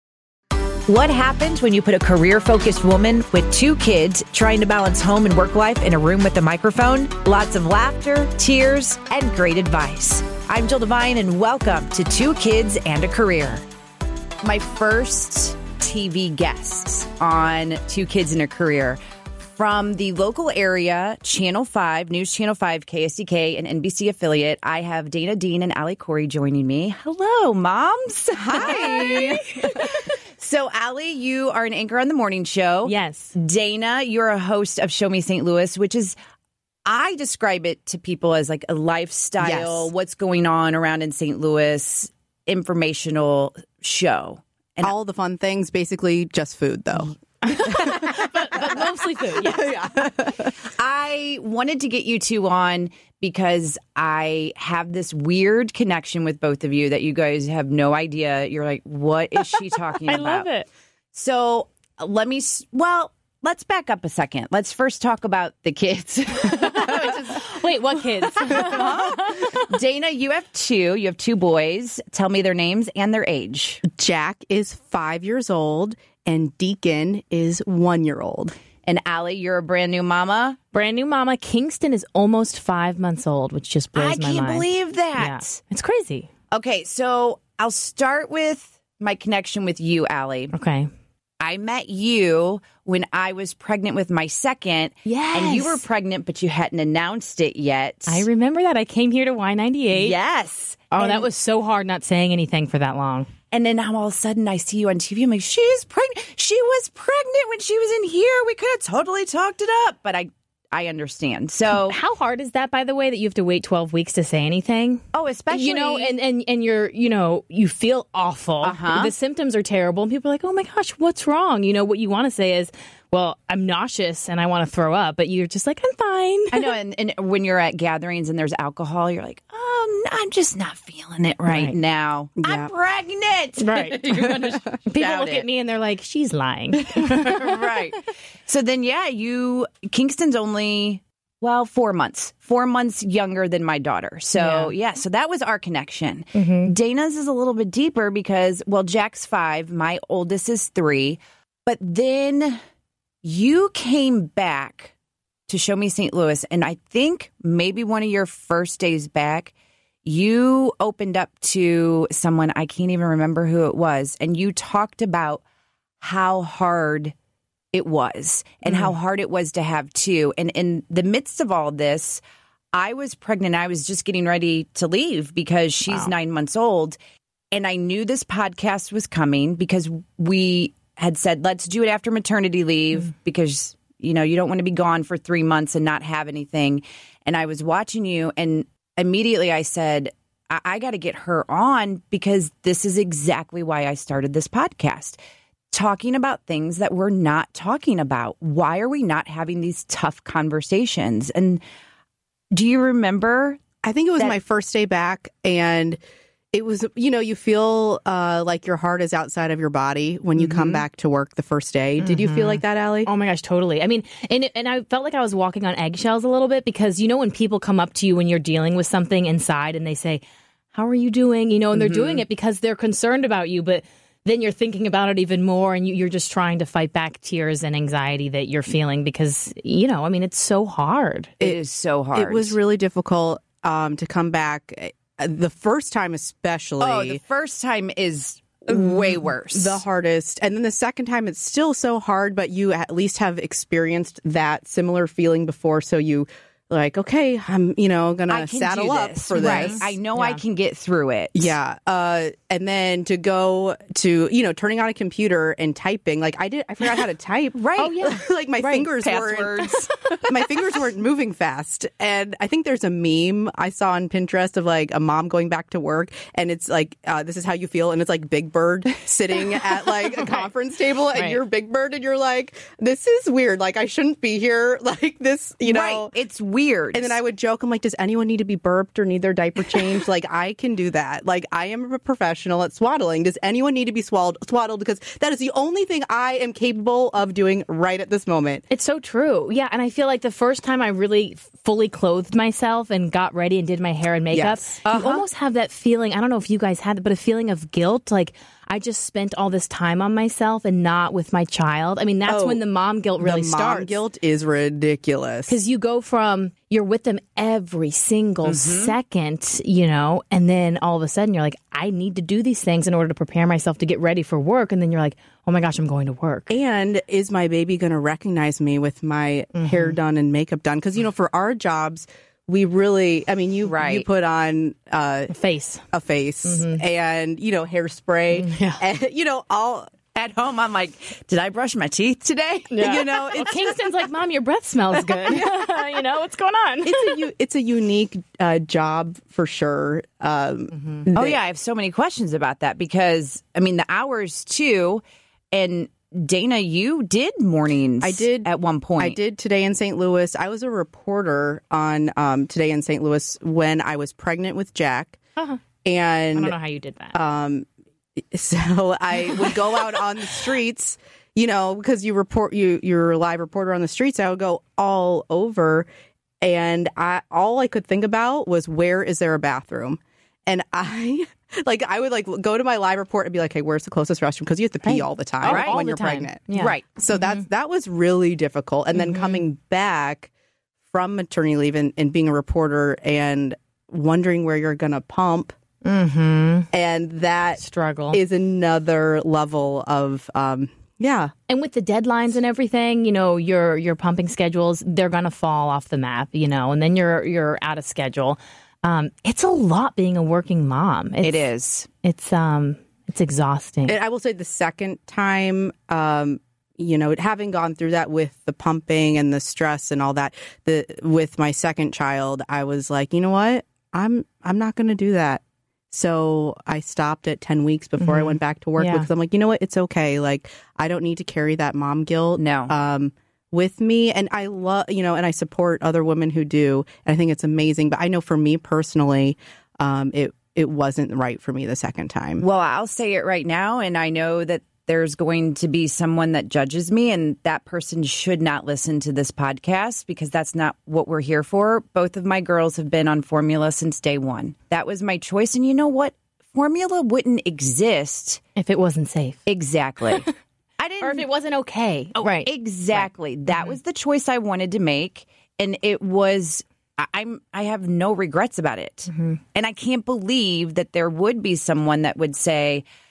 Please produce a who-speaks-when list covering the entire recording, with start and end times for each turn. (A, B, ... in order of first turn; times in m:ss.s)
0:00.9-0:13.6 A
0:14.4-0:36.2 A
0:28.4-0:29.4 B
0:28.6-0:30.0 C
0:32.8-0:33.4 C
0:36.9-0:44.9 A
0:39.4-0:39.9 B
0:44.8-0:48.7 B
0:47.4-0:49.7 C
0:49.4-0:50.6 B
0:50.8-1:00.5 A
1:00.0-1:00.7 C
1:01.1-1:07.6 A
1:06.5-1:09.7 C
1:08.3-1:13.8 A
1:08.6-1:09.2 B
1:13.8-1:18.6 B
1:18.9-1:20.6 A
1:20.7-1:26.3 C
1:24.0-1:25.6 A
1:26.5-1:30.5 A
1:30.5-1:30.9 C
1:31.4-1:38.2 A
1:35.0-1:35.8 C
1:38.1-1:40.2 C
1:39.9-1:41.3 A
1:40.9-1:43.3 C
1:43.5-1:52.0 A
1:51.7-2:06.7 C
1:55.1-1:56.1 A
1:58.6-1:59.1 A
2:06.5-2:15.5 A
2:11.5-2:11.8 C
2:12.4-2:12.7 B
2:13.6-2:14.1 C
2:14.1-2:14.5 B
2:14.8-2:17.8 C
2:16.9-2:32.6 A
2:24.4-2:24.7 C
2:26.4-2:26.7 C
2:33.2-2:34.9 A
2:35.5-2:39.5 A
2:40.0-2:45.4 A
2:46.0-2:47.1 A
2:47.7-2:52.2 A
2:48.7-2:48.9 C
2:52.7-2:57.0 A
2:55.9-2:56.1 C
2:57.5-3:15.2 A
3:15.7-3:21.6 A
3:22.5-3:23.6 A
3:23.8-3:26.0 B
3:26.5-3:33.1 B
3:30.4-3:30.8 C
3:32.0-3:51.4 C
3:51.4-3:52.6 A
3:52.1-3:57.2 B
3:56.8-3:59.8 A
3:58.7-4:09.9 B
4:08.3-4:11.5 A
4:09.4-4:10.4 C
4:11.3-4:36.1 B
4:17.6-4:19.9 A
4:31.1-4:31.4 C
4:35.6-4:37.1 A
4:36.9-4:48.6 B
4:48.7-5:04.0 C
4:54.3-4:54.6 B
4:54.8-4:55.3 A
5:02.3-5:02.6 B
5:03.2-5:05.6 B
5:05.5-5:16.6 C
5:08.4-5:09.0 A
5:16.5-5:25.3 B
5:19.5-5:20.0 C
5:23.6-5:24.1 A
5:25.3-5:25.8 C
5:25.9-5:29.9 B
5:26.5-5:26.8 C
5:28.3-5:28.8 C
5:30.2-5:32.8 A
5:32.7-5:37.2 C
5:32.8-5:33.8 B
5:35.0-5:35.6 B
5:36.8-5:41.4 B
5:40.7-5:41.0 C
5:41.2-5:49.2 A
5:48.0-5:55.2 B
5:55.8-5:56.6 B
5:56.4-5:57.2 C
5:57.1-6:05.9 B
6:06.4-6:20.3 B
6:14.8-6:17.4 C
6:15.4-6:15.8 A
6:16.5-6:16.8 A
6:18.9-6:19.4 C
6:20.9-6:25.5 B
6:25.8-6:26.7 C
6:26.7-6:31.3 B
6:27.6-6:28.2 C
6:31.5-6:41.4 C
6:41.2-6:41.9 A
6:42.0-6:44.0 C
6:43.9-7:12.4 B
6:58.0-6:59.1 C
7:02.4-7:02.7 A
7:12.4-7:28.4 A
7:28.6-7:29.4 C
7:29.5-7:30.3 A
7:30.8-7:31.3 A
7:31.0-7:33.8 C
7:32.2-7:42.8 A
7:39.1-7:39.4 C